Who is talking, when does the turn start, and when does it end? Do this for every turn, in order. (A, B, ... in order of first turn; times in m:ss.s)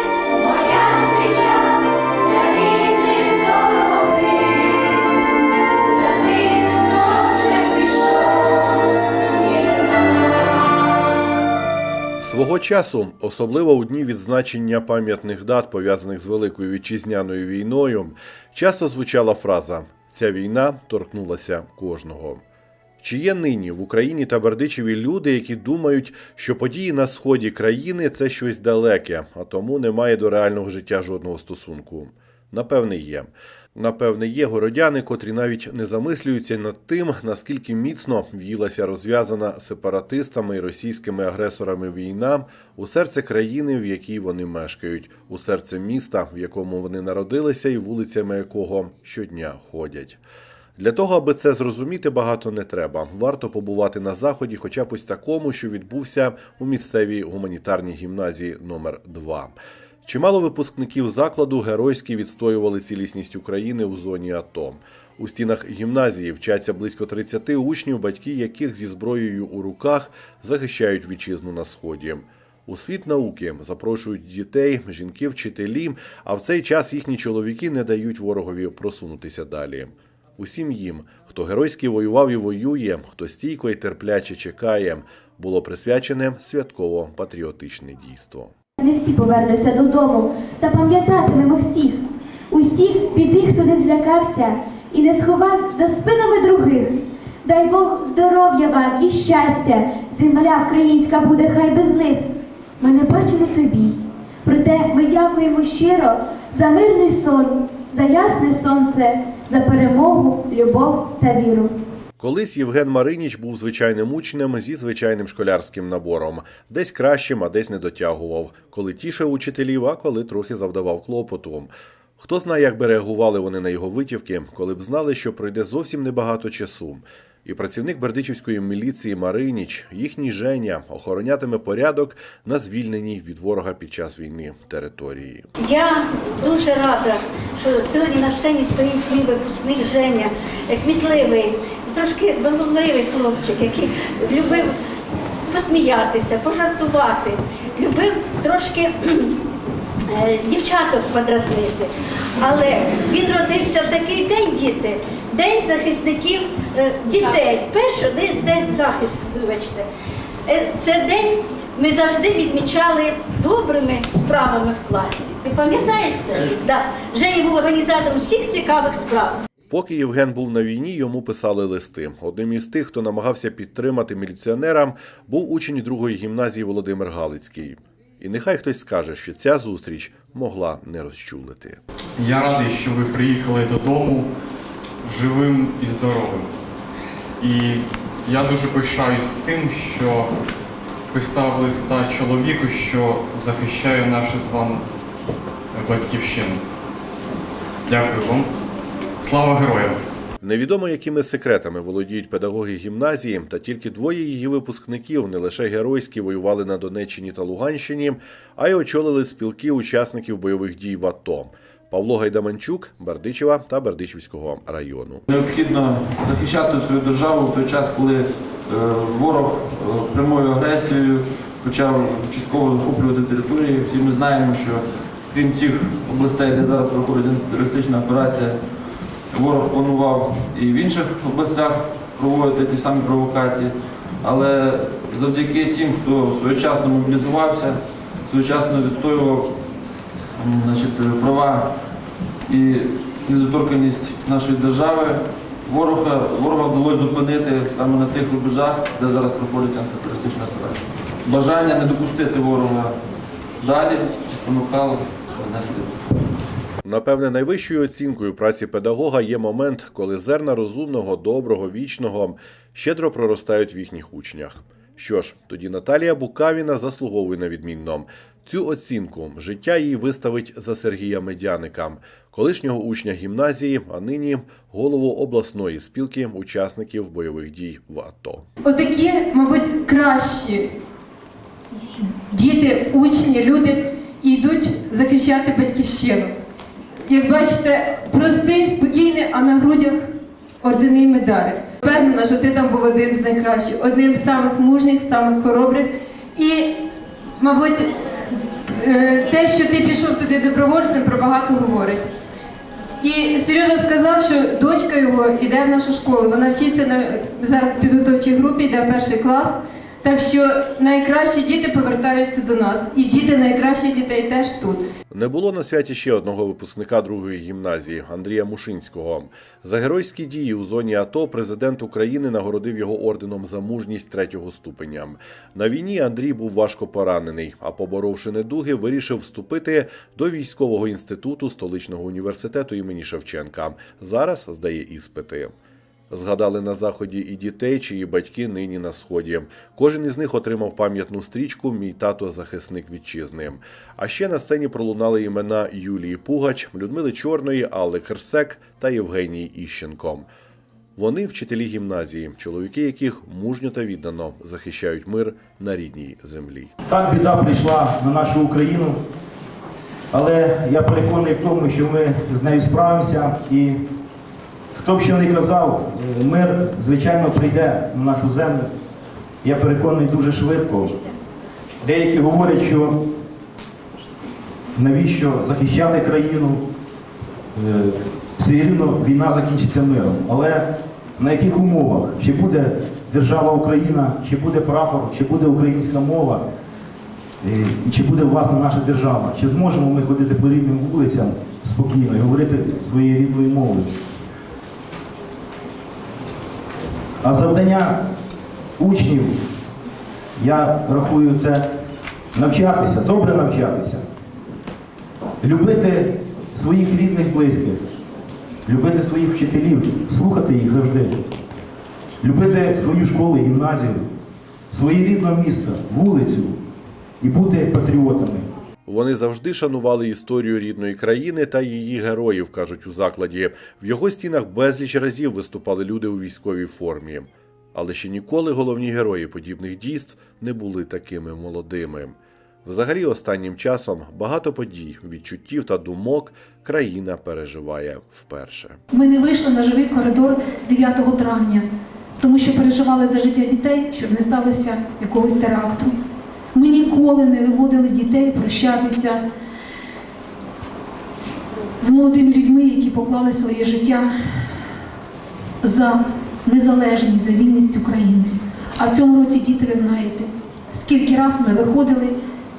0:00.4-0:01.0 A
0:02.4-0:03.2 A
0:03.3-0:03.9 B
0:06.7-0:08.0 A
0:12.2-0:22.4 C
0:23.0-0:50.2 C
0:50.8-1:28.5 C
1:28.8-1:36.9 B
1:37.4-1:42.2 B
1:42.8-1:51.7 B
1:52.2-2:15.4 C
2:15.6-2:24.7 A
2:25.5-2:29.3 A
2:30.1-2:39.9 A
2:40.5-2:49.4 A
2:49.7-3:01.8 C
3:02.2-3:04.3 D
3:05.0-3:06.5 D
3:07.4-3:10.3 D
3:11.1-3:14.8 D
3:15.7-3:16.6 D
3:17.9-3:18.5 D
3:19.2-3:20.0 D
3:20.4-3:35.2 C
3:35.3-3:48.6 E
3:49.3-3:59.5 E
4:00.4-4:01.7 E
4:02.5-4:13.0 E
4:13.6-4:16.2 E
4:16.8-4:38.4 C
4:38.6-4:40.7 F
4:42.3-4:46.3 F
4:47.1-4:50.0 F
4:50.6-4:56.8 F
4:57.4-4:57.9 F
4:58.7-5:02.0 F
5:03.0-5:14.8 F
5:15.1-5:35.5 C
5:36.1-5:50.3 C
5:51.0-5:56.7 C
5:56.9-5:59.0 G
6:00.1-6:03.8 G
6:04.7-6:08.7 G
6:09.4-6:11.0 G
6:11.8-6:13.0 G
6:14.7-6:16.6 G
6:17.6-6:26.4 G
6:27.4-6:33.9 G
6:37.2-6:38.0 G
6:38.8-6:39.4 G
6:40.4-6:41.6 G
6:42.3-6:44.0 G
6:45.4-6:47.9 G
6:48.6-6:51.2 G
6:52.2-6:54.0 G
6:54.7-6:56.5 G
6:57.2-6:58.5 G
6:58.9-7:18.8 C
7:18.9-7:21.6 H
7:22.2-7:25.9 H
7:26.5-7:29.2 H
7:31.8-7:34.1 H
7:35.6-7:42.1 H